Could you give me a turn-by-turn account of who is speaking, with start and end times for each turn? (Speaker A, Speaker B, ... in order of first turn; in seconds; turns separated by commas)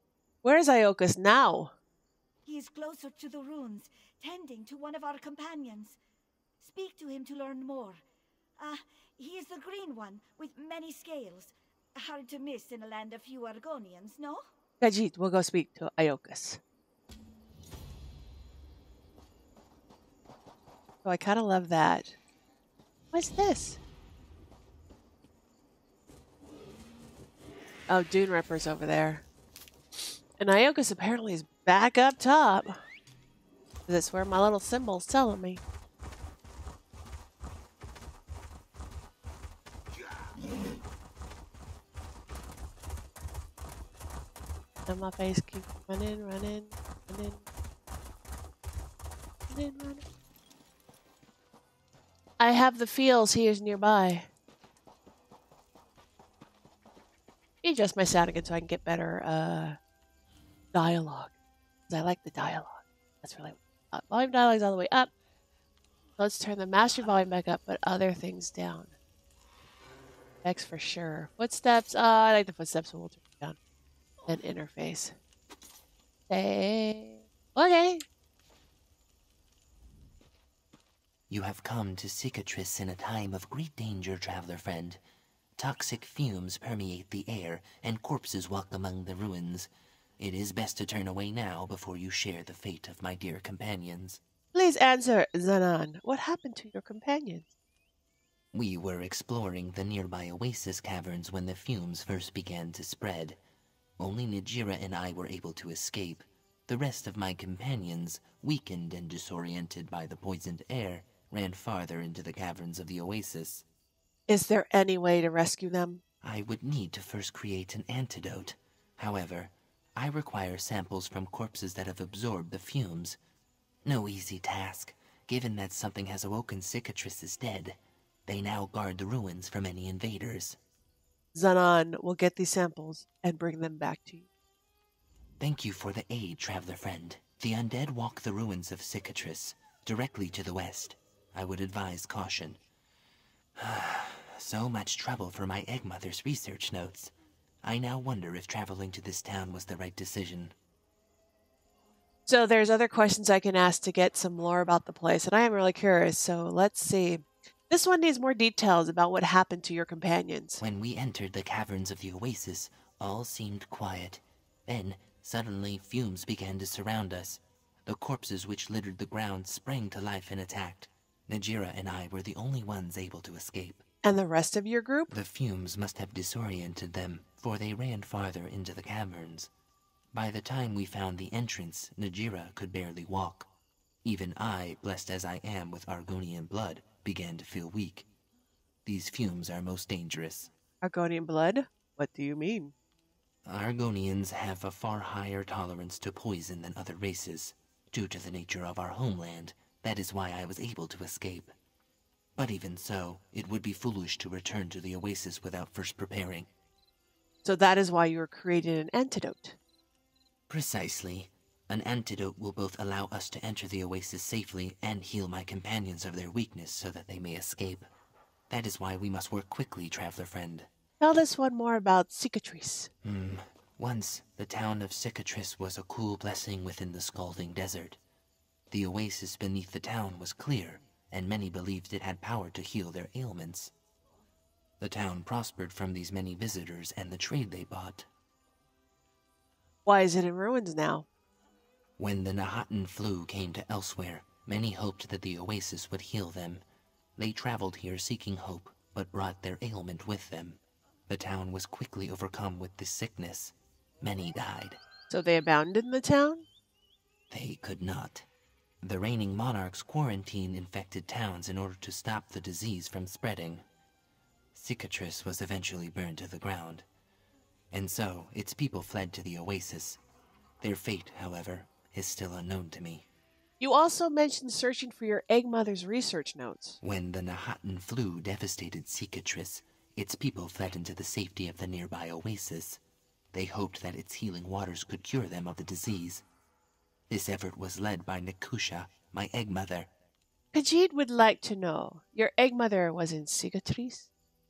Speaker A: 0.4-1.7, Speaker B: 2.5-6.0, Speaker B: 6.6-8.0, Speaker B: 8.6-14.4, Speaker A: 14.8-16.6, Speaker A: 21.0-22.2, Speaker A: 23.1-23.8, Speaker A: 27.9-29.2, Speaker A: 30.4-32.8, Speaker A: 33.9-35.6, Speaker A: 44.9-47.4, Speaker A: 49.5-50.0, Speaker A: 52.4-54.3, Speaker A: 57.6-59.8, Speaker A: 60.7-61.3, Speaker A: 61.9-65.1, Speaker A: 66.2-68.9, Speaker A: 70.4-73.6, Speaker A: 74.3-75.2, Speaker A: 76.3-78.0, Speaker C: 81.3-85.0, Speaker C: 85.6-94.2, Speaker A: 94.5-97.5, Speaker C: 98.5-103.4, Speaker C: 104.0-113.7, Speaker A: 114.3-116.0, Speaker C: 116.2-123.2, Speaker C: 123.8-130.6, Speaker A: 131.3-134.3, Speaker C: 135.4-142.6, Speaker C: 143.6-150.5, Speaker A: 152.3-160.6, Speaker C: 160.6-173.8, Speaker A: 174.0-175.1, Speaker C: 175.1-179.5, Speaker C: 180.1-183.5, Speaker C: 184.0-188.1, Speaker C: 188.8-190.5, Speaker A: 190.8-192.7, Speaker C: 193.5-201.5, Speaker C: 202.4-206.5, Speaker A: 207.4-209.6, Speaker C: 210.5-217.9, Speaker C: 218.5-220.7, Speaker A: 221.0-222.9, Speaker C: 223.0-228.0, Speaker C: 228.7-233.7, Speaker C: 234.8-238.1, Speaker A: 239.9-241.1, Speaker C: 242.0-246.6, Speaker C: 247.2-254.8, Speaker A: 255.1-256.5, Speaker C: 257.3-258.3, Speaker C: 258.8-263.6, Speaker C: 264.5-266.9, Speaker C: 267.7-270.0, Speaker C: 270.6-273.1, Speaker A: 273.6-276.8, Speaker C: 276.8-282.8, Speaker C: 283.3-286.2, Speaker C: 287.1-289.9, Speaker A: 290.5-294.1